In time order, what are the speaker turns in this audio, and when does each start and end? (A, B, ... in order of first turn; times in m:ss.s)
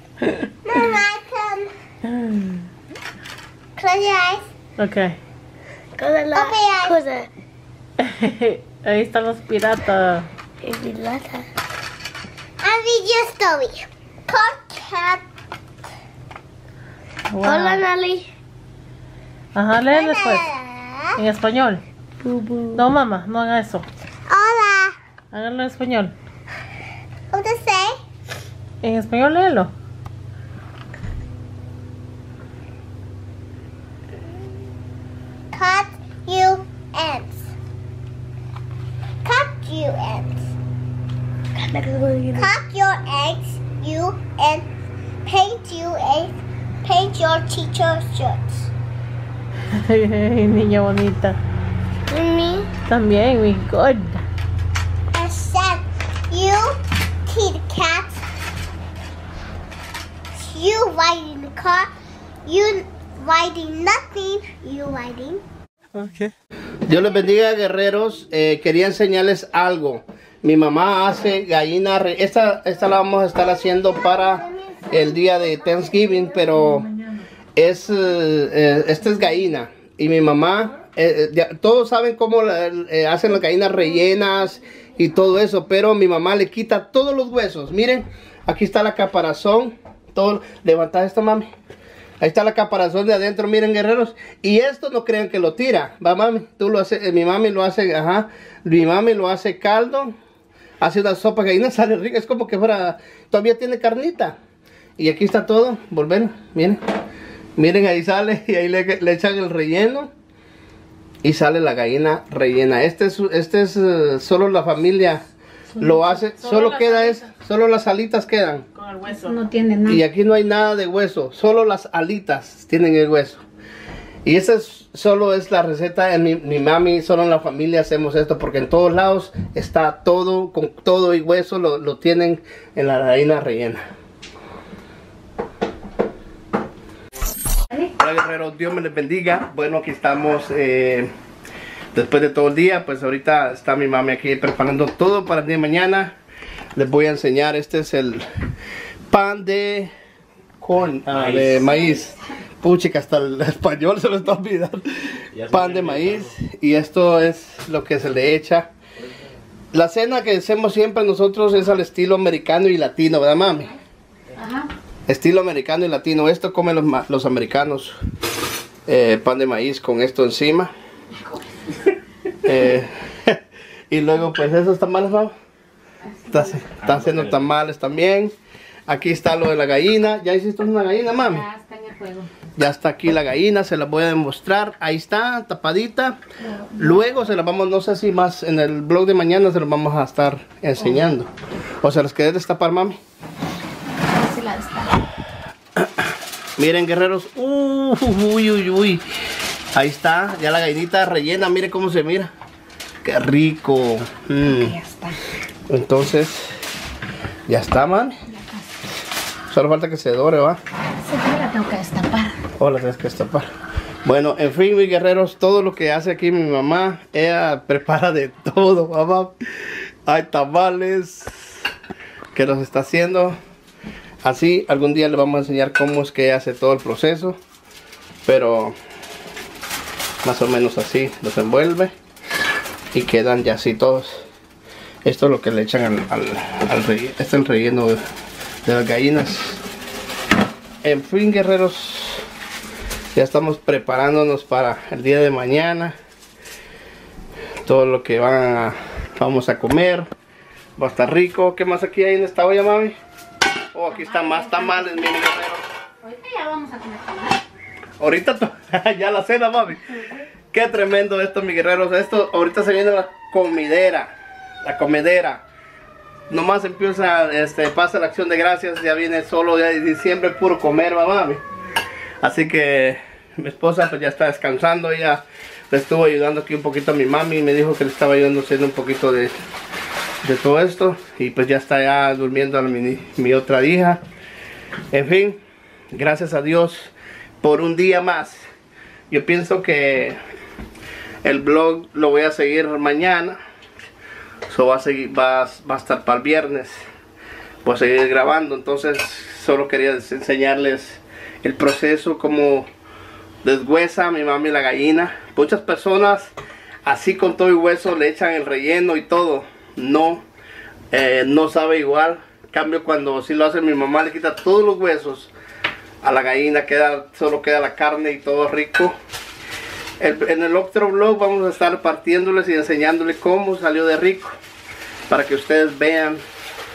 0:00.6-0:01.7 A
0:02.1-0:02.6 B
0:03.8-0:04.4 A
0:04.8-0:05.2 B
0:06.0-0:07.3 C
0:06.3-0:07.0 A
0:08.0-0:10.3 B
0:10.6-0:11.4 C
0:12.6-0:15.2 A
0:17.3-0:17.8 B
0:17.4-0:18.3 A
0:19.5-0:20.5 B
0:19.9-0:21.1 A
0:21.2-0:21.8 B
0:22.2-0:22.8 A
0:22.7-0:23.8 B
0:24.3-0:25.0 A
0:25.3-0:26.1 B
0:27.3-0:28.0 A
0:28.8-0:29.7 B
0:35.5-0:37.5 A
0:39.2-0:40.4 A
0:41.6-0:42.5 C
0:42.4-0:44.7 A
0:45.2-0:48.7 A
0:49.7-0:51.4 B
0:52.1-0:52.7 A
0:52.9-0:54.2 B
0:55.1-0:58.2 A
1:00.3-1:01.9 A
1:02.4-1:05.4 A
1:05.9-1:06.3 D
1:06.9-1:16.9 D
1:16.3-1:17.2 B
1:17.6-1:31.5 D
1:32.2-1:40.1 D
1:40.8-1:44.4 D
1:45.0-1:46.8 D
1:47.6-1:50.1 D
1:51.2-1:55.2 D
1:55.8-1:58.6 D
1:56.3-1:57.3 B
1:58.7-1:59.4 B
1:59.2-2:00.0 C
1:59.8-2:03.4 D
2:04.2-2:13.8 D
2:17.8-2:21.1 D
2:21.9-2:26.1 D
2:26.7-2:28.2 D
2:29.1-2:29.9 D
2:30.6-2:38.7 D
2:39.7-2:43.7 D
2:44.4-2:44.7 C
2:45.1-2:48.0 D
2:48.8-2:50.7 D
2:52.4-2:55.3 D
2:56.2-2:58.3 D
2:58.9-3:01.5 D
3:01.2-3:02.3 C
3:02.6-3:06.2 D
3:06.7-3:11.3 D
3:11.8-3:13.0 D
3:14.0-3:15.0 C
3:15.8-3:16.0 D
3:16.6-3:19.0 D
3:19.7-3:22.3 D
3:23.0-3:24.8 D
3:24.5-3:25.2 C
3:25.7-3:26.5 D
3:27.5-3:28.1 D
3:29.5-3:30.6 D
3:31.0-3:32.4 C
3:32.6-3:33.5 D
3:34.0-3:41.7 D
3:42.3-3:43.4 D
3:44.2-3:47.4 D
3:48.2-3:48.8 D
3:50.2-3:51.9 D
3:52.9-3:54.3 D
3:55.0-3:58.0 D
3:58.6-3:59.6 D
4:00.8-4:02.2 D
4:03.1-4:05.9 D
4:07.6-4:10.1 D
4:10.8-4:13.0 D
4:13.7-4:15.6 D
4:14.1-4:14.8 C
4:16.0-4:17.4 C
4:18.0-4:25.4 D
4:26.3-4:31.4 D
4:32.2-4:39.3 D
4:40.2-4:44.0 D
4:44.9-4:45.4 D
4:45.9-4:48.4 D
4:49.1-4:50.2 D
4:51.2-4:53.4 D
4:54.5-4:56.8 D
4:57.6-5:02.7 D
5:03.4-5:06.3 D
5:06.8-5:10.2 D
5:10.9-5:15.3 D
5:16.0-5:19.0 D
5:20.0-5:24.4 D
5:25.1-5:26.2 D